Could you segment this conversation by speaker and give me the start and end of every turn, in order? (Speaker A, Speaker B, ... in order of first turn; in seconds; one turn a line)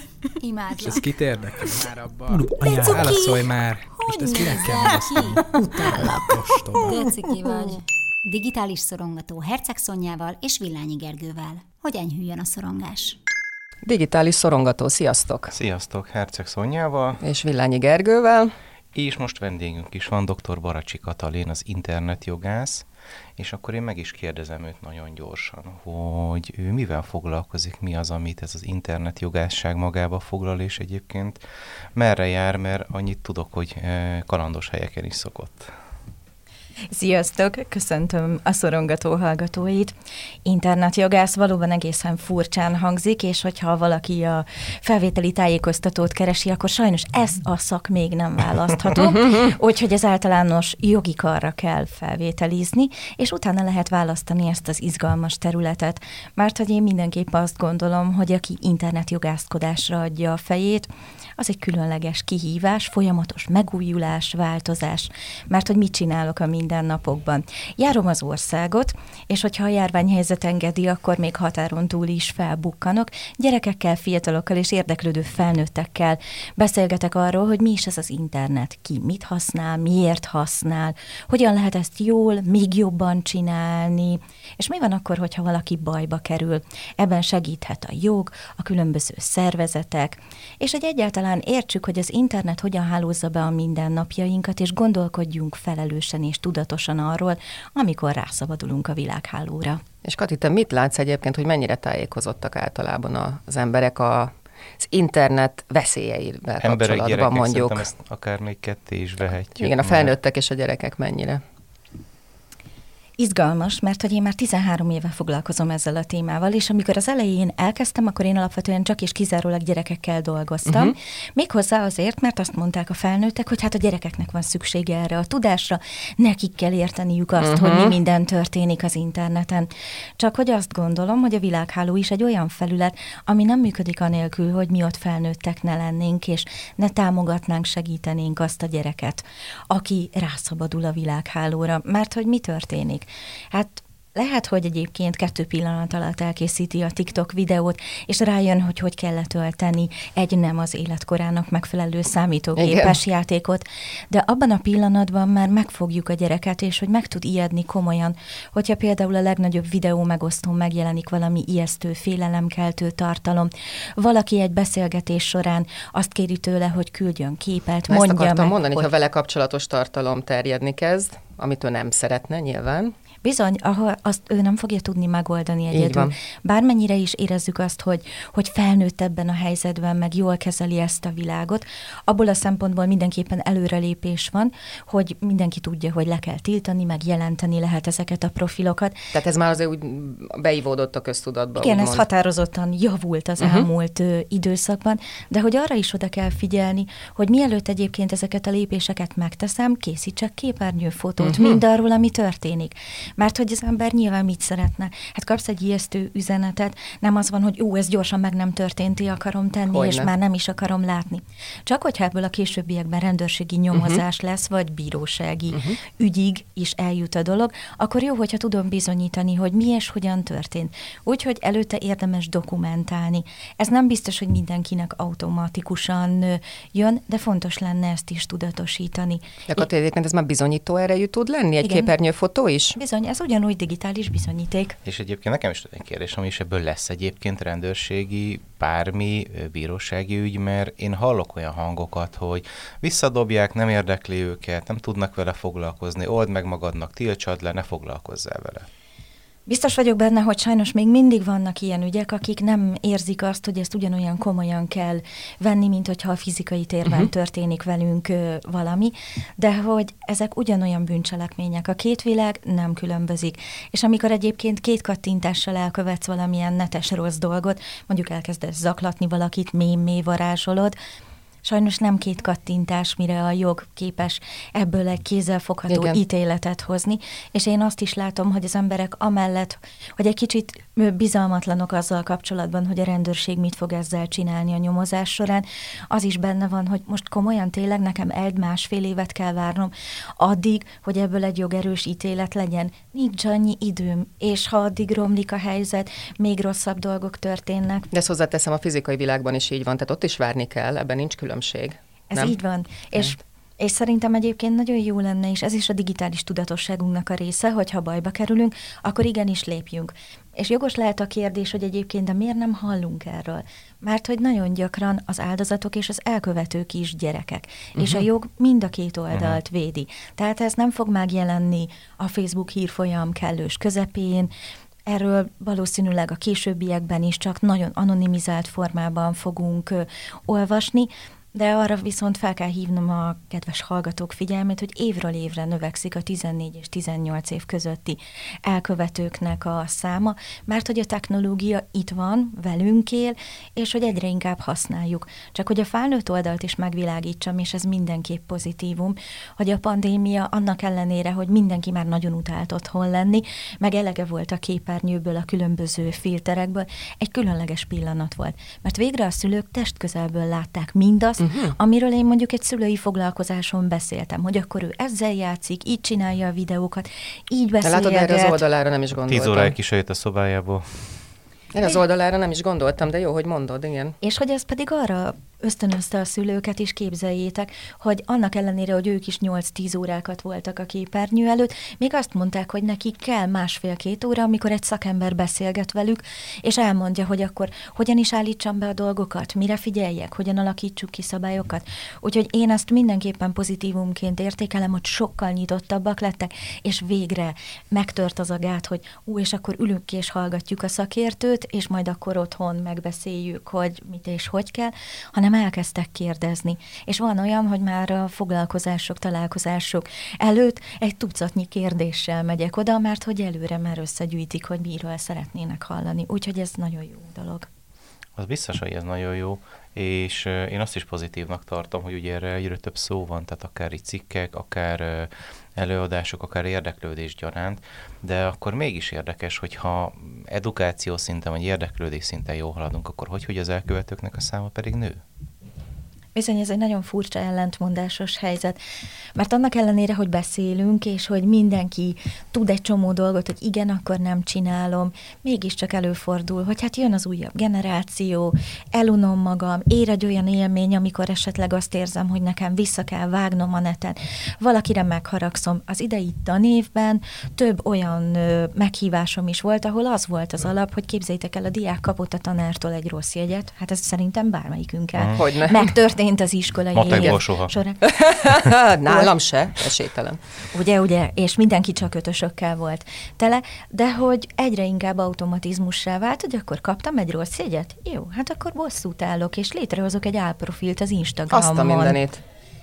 Speaker A: 0.4-1.1
Speaker B: 0.8-7.1
Speaker A: 2.5-13.2
Speaker C: 13.9-15.5
Speaker D: 15.5-17.2
Speaker C: 17.2-18.5
Speaker D: 18.9-31.4
Speaker D: 31.9-35.7
Speaker E: 36.9-39.9
Speaker E: 40.5-99.8
Speaker C: 100.0-107.8
Speaker D: 106.6-110.1
Speaker C: 109.6-111.4
Speaker E: 113.2-168.9
Speaker C: 120.7-120.9
Speaker C: 127.4-127.9
Speaker C: 152.6-153.0
Speaker C: 167.9-172.9
Speaker E: 173.2-189.1
Speaker C: 175.7-176.1
Speaker C: 189.2-192.0
Speaker E: 191.6-229.7
Speaker C: 193.4-193.7
Speaker C: 201.2-201.6
Speaker C: 209.7-210.1
Speaker C: 213.7-214.0
Speaker C: 215.5-215.8
Speaker C: 229.5-232.8
Speaker E: 231.6-231.9
Speaker E: 232.8-234.8
Speaker D: 234.8-248.7
Speaker E: 249.5-270.8
Speaker E: 271.4-297.9
Speaker C: 275.7-276.0
Speaker C: 297.9-302.4
Speaker E: 302.1-324.3
Speaker C: 317.8-318.0
Speaker D: 319.1-319.4
Speaker E: 324.9-368.4
Speaker C: 361.2-361.6
Speaker C: 367.6-369.5
Speaker D: 369.1-371.1
Speaker C: 371.5-374.0
Speaker E: 374.0-417.5
Speaker D: 418.1-435.0
Speaker E: 436.1-438.6
Speaker E: 439.1-468.0
Speaker C: 465.1-465.7
Speaker D: 466.7-467.5
Speaker C: 466.9-467.1
Speaker C: 467.9-470.2
Speaker E: 470.5-482.0
Speaker C: 481.3-482.2